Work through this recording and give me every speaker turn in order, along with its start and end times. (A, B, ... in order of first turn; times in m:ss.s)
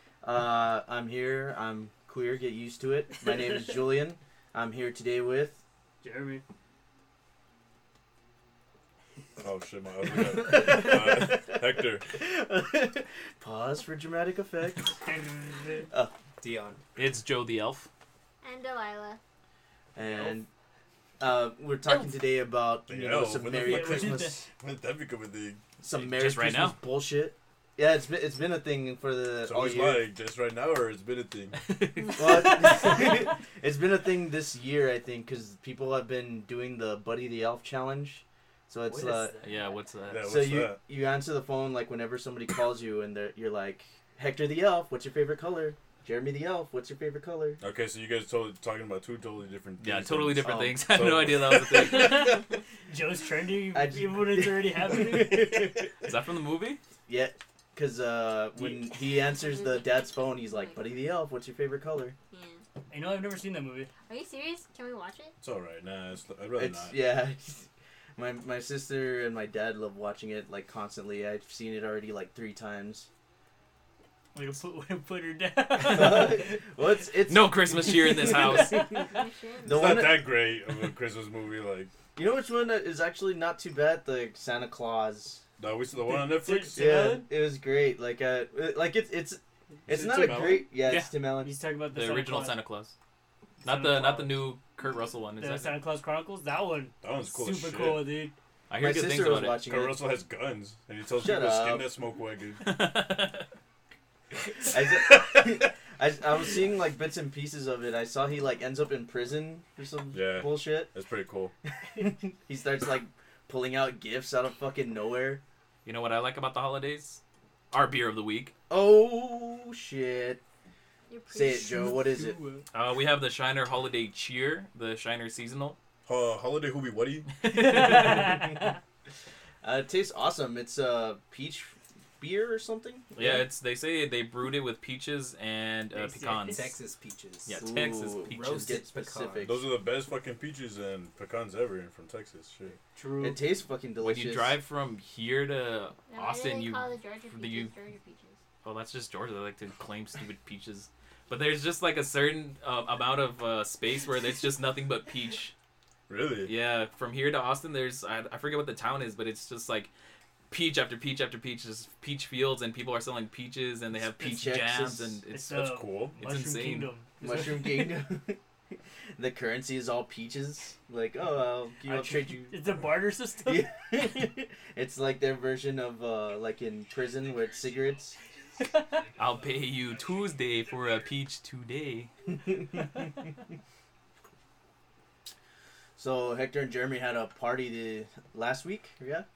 0:00.2-0:05.6 A
0:06.0-0:06.4 B
0:09.4-0:12.1 C
0:10.3-0:15.0 A
0:15.1-0:15.9 B
0:16.4-0:16.8 D
0:17.0-0:17.9 E
0:18.4-0:19.2 F
0:20.0-0:20.5 A
0:21.2-0:24.4 A
0:22.9-0:25.6 C
0:23.6-0:24.4 B
0:25.8-0:30.0 A
0:25.9-0:26.8 E
0:29.4-0:31.6 C
0:31.7-0:33.1 E
0:32.2-0:39.4 A
0:38.9-0:39.7 B
0:39.4-0:40.3 E
0:40.1-0:40.8 C
0:40.2-0:47.6 A
0:47.6-0:52.3 C
0:49.8-0:52.3 E
0:50.4-0:51.2 A
0:51.8-0:55.7 B
0:53.7-0:55.9 A
0:56.0-0:56.8 E
0:57.1-1:02.2 A
0:59.4-1:00.9 F
1:02.3-1:02.6 F
1:02.9-1:03.9 B
1:04.1-1:05.3 F
1:05.4-1:07.0 C
1:06.6-1:13.1 A
1:14.4-1:16.6 B
1:15.8-1:19.0 A
1:17.3-1:18.9 E
1:19.0-1:20.1 F
1:19.6-1:20.3 A
1:19.7-1:21.9 C
1:22.2-1:25.4 A
1:25.6-1:26.8 C
1:26.0-1:27.3 B
1:26.8-1:31.5 A
1:29.9-1:30.4 B
1:29.9-1:30.6 C
1:30.5-1:31.1 E
1:31.4-1:32.6 B
1:31.9-1:32.9 E
1:33.6-1:35.8 E
1:33.6-1:34.4 B
1:35.4-1:38.4 B
1:37.0-1:38.1 C
1:38.7-1:39.6 E
1:38.8-1:40.0 A
1:39.6-1:42.6 C
1:41.2-1:41.9 A
1:42.6-1:43.4 E
1:44.7-1:50.9 A
1:50.1-1:51.5 C
1:52.0-1:55.4 A
1:55.8-1:57.2 E
1:57.7-1:58.5 E
1:58.7-2:00.4 A
2:01.1-2:01.9 F
2:01.3-2:02.4 A
2:01.6-2:02.6 B
2:02.7-2:05.8 E
2:06.1-2:07.3 C
2:07.4-2:08.4 E
2:07.5-2:08.8 B
2:09.6-2:13.4 A
2:13.2-2:16.8 E
2:15.9-2:16.7 B
2:16.4-2:19.6 D
2:17.5-2:18.9 E
2:17.6-2:19.7 A
2:19.4-2:22.8 C
2:23.0-2:23.4 B
2:23.2-2:24.6 A
2:24.0-2:27.7 E
2:26.1-2:28.4 F
2:28.6-2:35.5 E
2:36.1-2:36.5 C
2:36.5-2:39.9 E
2:40.5-2:45.6 E
2:44.0-2:45.2 A
2:45.3-2:47.9 B
2:45.6-2:46.2 C
2:46.2-2:46.9 E
2:47.2-2:48.4 A
2:49.2-2:52.6 A
2:51.9-2:53.7 B
2:53.4-2:58.2 A
2:58.6-2:59.0 B
2:59.2-3:02.1 E
3:02.4-3:02.9 A
3:06.0-3:09.2 A